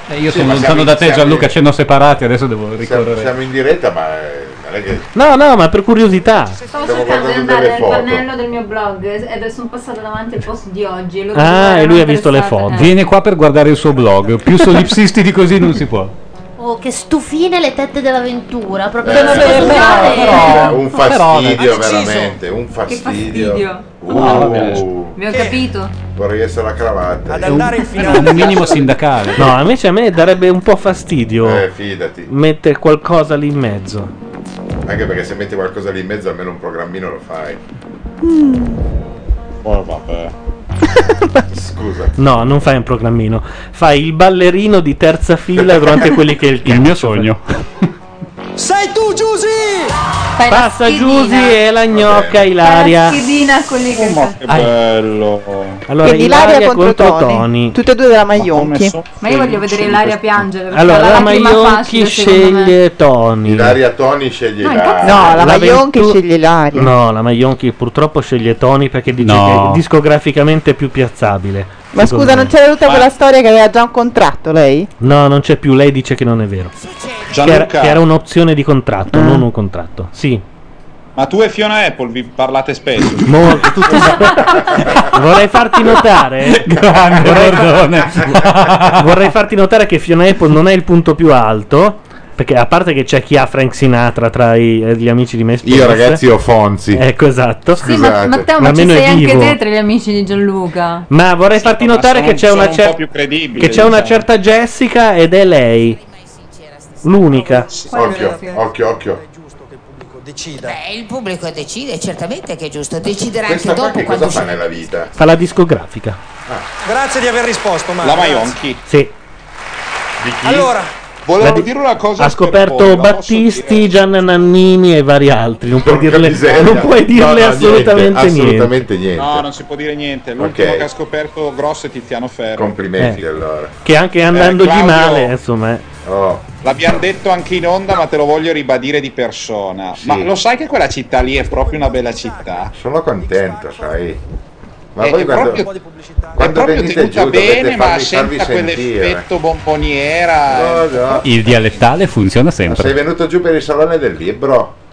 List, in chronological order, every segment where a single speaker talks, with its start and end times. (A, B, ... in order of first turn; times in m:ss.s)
0:00.1-0:03.3 A
0:00.3-0:01.5 B
0:02.8-0:05.1 B
0:05.2-0:06.6 C
0:06.7-0:12.9 D
0:06.8-0:08.3 B
0:11.4-0:12.9 C
0:12.7-0:16.1 A
0:16.6-0:20.7 E
0:19.0-0:25.2 B
0:19.1-0:21.7 A
0:22.9-0:24.5 D
0:24.2-0:24.9 A
0:25.1-0:25.9 D
0:26.2-0:27.7 B
0:27.4-0:29.5 A
0:27.4-0:28.6 F
0:29.4-0:31.6 C
0:31.4-0:32.3 B
0:32.3-0:34.1 C
0:34.8-0:37.6 B
0:38.2-0:38.8 G
0:39.6-0:40.3 H
0:41.5-0:42.2 B
0:42.2-0:47.3 C
0:46.6-0:47.4 A
0:50.4-0:51.6 D
0:50.5-0:53.2 C
0:51.9-0:52.6 B
0:52.6-0:54.4 D
0:53.9-0:55.8 H
0:55.9-0:57.8 C
0:56.0-0:59.0 G
0:58.3-1:00.4 H
0:59.1-1:02.8 D
1:00.7-1:03.8 C
1:03.4-1:05.4 B
1:04.6-1:05.5 D
1:05.0-1:06.9 G
1:05.2-1:06.2 C
1:06.7-1:12.5 C
1:09.2-1:09.8 A
1:11.9-1:14.9 G
1:12.8-1:13.1 H
1:15.0-1:16.7 C
1:17.3-1:18.1 H
1:17.4-1:20.4 C
1:19.1-1:19.5 G
1:21.2-1:24.2 H
1:23.2-1:28.0 C
1:26.4-1:29.0 A
1:28.9-1:36.2 C
1:35.6-1:37.1 B
1:36.9-1:37.9 C
1:37.8-1:38.5 B
1:37.8-1:41.1 D
1:38.6-1:39.6 C
1:41.1-1:43.0 C
1:41.5-1:44.3 H
1:43.6-1:46.0 C
1:47.0-1:47.7 C
1:47.9-1:48.6 D
1:47.9-1:49.2 B
1:50.6-1:54.6 I
1:53.4-1:55.1 B
1:55.2-1:56.2 C
1:57.0-1:58.1 F
1:58.0-1:58.8 H
1:58.9-1:59.1 C
2:00.2-2:00.7 B
2:01.3-2:04.3 H
2:01.4-2:08.8 C
2:05.8-2:09.5 B
2:09.2-2:13.3 H
2:10.4-2:10.9 B
2:12.6-2:13.7 B
2:13.8-2:15.8 C
2:14.3-2:15.3 H
2:16.0-2:16.5 B
2:16.6-2:22.7 H
2:20.0-2:20.3 B
2:22.7-2:24.2 B
2:25.0-2:25.7 B
2:25.0-2:25.7 H
2:26.4-2:29.2 B
2:26.4-2:31.0 H
2:30.5-2:31.3 B
2:31.2-2:33.0 A
2:32.6-2:34.7 B